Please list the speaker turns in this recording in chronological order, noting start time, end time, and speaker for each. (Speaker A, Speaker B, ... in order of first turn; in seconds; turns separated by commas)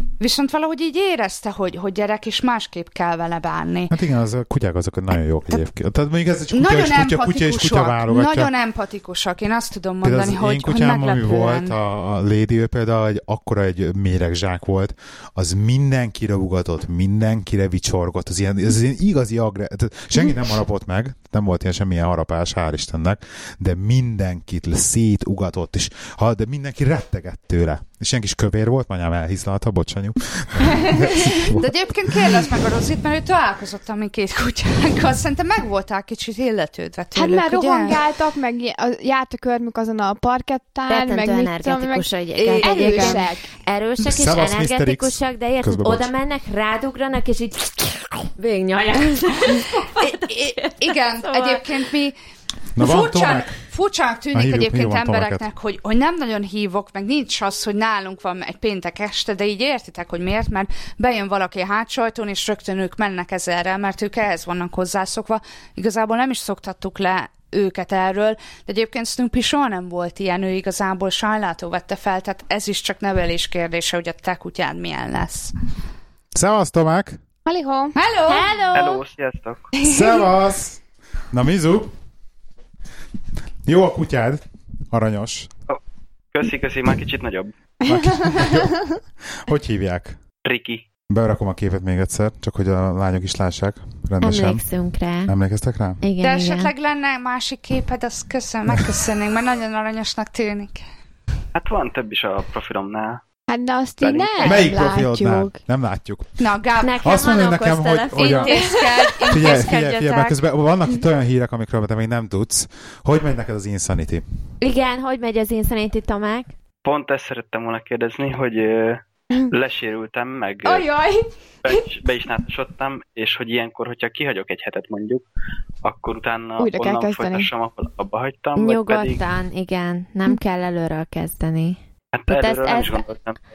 Speaker A: 0.2-3.9, Speaker B: 3.9-8.5, Speaker A: 6.5-11.8, Speaker B: 10.0-32.5, Speaker A: 31.6-38.1, Speaker C: 37.1-43.5, Speaker D: 40.9-51.9, Speaker A: 42.4-43.2, Speaker B: 44.0-46.1, Speaker A: 50.0-52.2, Speaker B: 52.8-53.6, Speaker A: 52.8-75.5, Speaker B: 54.3-55.5, Speaker B: 76.3-77.2, Speaker C: 77.5-78.0, Speaker A: 78.0-78.5, Speaker D: 78.3-79.0, Speaker E: 78.7-79.7, Speaker C: 79.8-80.2, Speaker B: 79.8-81.9, Speaker B: 83.7-85.5, Speaker E: 86.3-87.5, Speaker B: 87.8-90.2, Speaker E: 90.5-90.8, Speaker B: 91.1-94.7, Speaker D: 94.2-95.3, Speaker B: 95.2-96.0, Speaker D: 96.0-96.7, Speaker A: 96.2-100.8, Speaker E: 101.5-103.2, Speaker C: 103.5-105.6, Speaker E: 104.0-104.8, Speaker B: 104.4-108.8, Speaker A: 106.4-107.0, Speaker D: 106.8-110.3, Speaker A: 108.2-109.9, Speaker B: 109.3-114.2, Speaker D: 114.6-116.5, Speaker E: 116.8-120.9, Speaker C: 120.6-122.0, Speaker E: 121.7-125.2, Speaker E: 125.8-129.2, Speaker C: 126.6-127.5, Speaker D: 128.6-133.0, Speaker E: 132.1-133.4